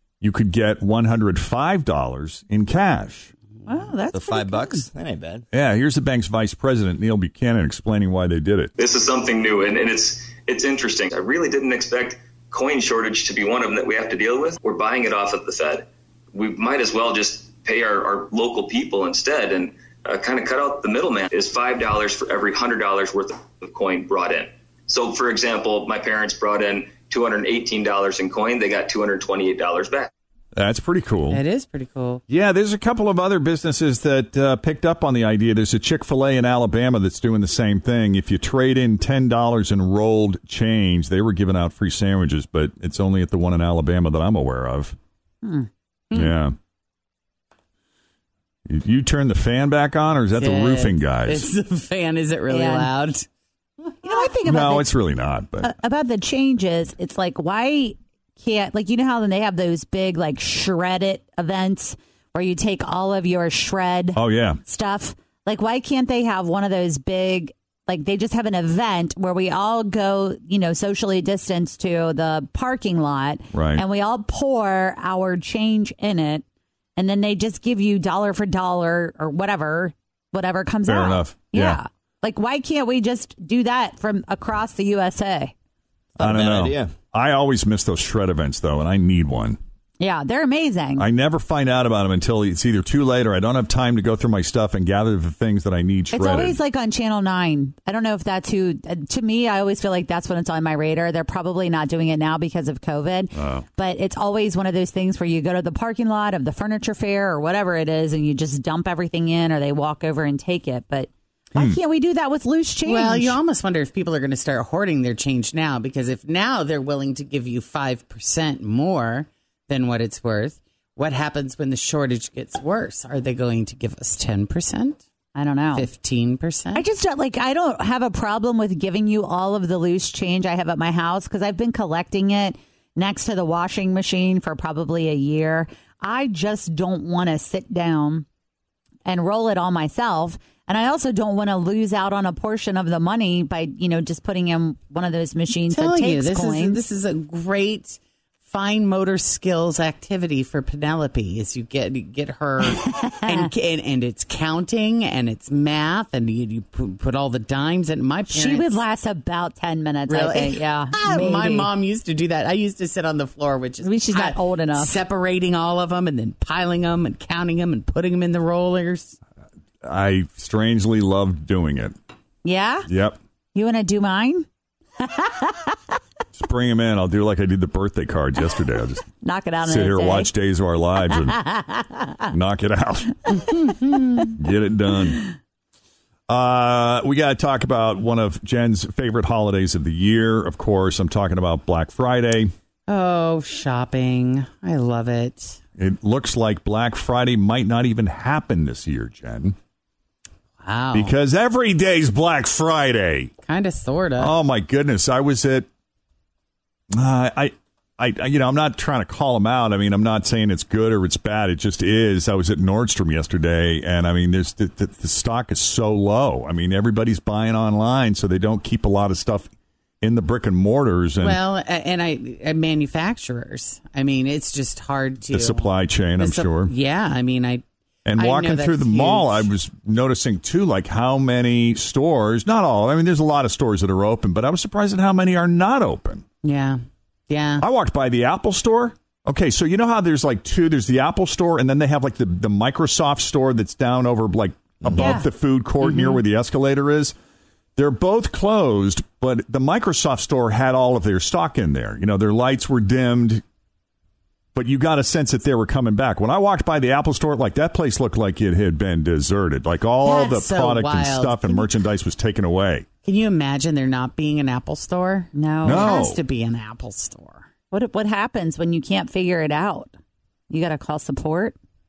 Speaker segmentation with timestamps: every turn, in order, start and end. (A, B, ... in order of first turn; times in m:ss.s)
0:00.2-0:03.3 A
0:03.6-0:04.8 B
0:04.1-0:05.4 C
0:05.5-0:08.7 A
0:08.8-0:30.1 D
0:30.5-0:31.4 A
0:31.3-0:32.2 E
0:32.3-0:45.0 A
0:45.4-0:45.7 B
0:46.1-0:46.6 A
0:48.7-0:51.5 A
0:50.4-0:53.2 E
0:52.5-0:52.9 B
0:54.0-0:54.9 B
0:54.4-0:55.8 A
0:55.6-1:16.4 B
1:04.1-1:04.6 A
1:13.5-1:13.8 A
1:17.0-1:25.5 B
1:20.8-1:21.8 A
1:26.2-1:26.9 C
1:26.2-1:29.6 A
1:30.0-1:31.0 B
1:31.0-1:36.6 A
1:36.1-1:53.4 B
1:43.3-1:43.6 A
1:52.8-2:05.0 E
2:05.3-2:05.9 B
2:05.7-2:06.8 E
2:06.7-2:18.2 B
2:19.0-2:26.8 B
2:25.7-2:38.8 E
2:32.8-2:33.5 B
2:38.3-2:41.7 B
2:40.1-2:49.2 E
2:43.8-2:45.0 B
2:49.8-2:51.9 A
2:52.4-2:52.9 B
2:52.9-2:53.2 A
2:53.5-2:54.5 B
2:55.0-2:55.8 B
2:56.3-2:59.0 A
2:59.2-3:00.3 B
2:59.6-3:01.4 A
3:01.1-3:02.3 B
3:02.3-3:03.4 A
3:03.4-3:04.3 E
3:04.4-3:05.3 A
3:06.3-3:12.5 A
3:12.9-3:15.6 E
3:15.8-3:19.6 A
3:20.6-3:21.1 E
3:20.9-3:23.3 A
3:23.4-3:24.3 E
3:24.2-3:25.7 A
3:26.9-3:39.5 A
3:40.0-3:41.4 A
3:41.2-3:47.6 E
3:45.3-3:46.7 A
3:48.0-3:56.2 A
3:48.2-3:49.5 E
3:56.4-3:57.6 E
3:57.6-4:07.1 A
4:04.8-4:05.1 C
4:05.0-4:05.3 B
4:05.8-4:06.2 E
4:07.8-4:13.4 A
4:14.5-4:22.9 A
4:20.0-4:21.7 E
4:23.0-4:27.5 E
4:25.3-4:26.0 B
4:25.6-4:26.2 A
4:27.7-4:29.9 B
4:30.5-4:31.6 B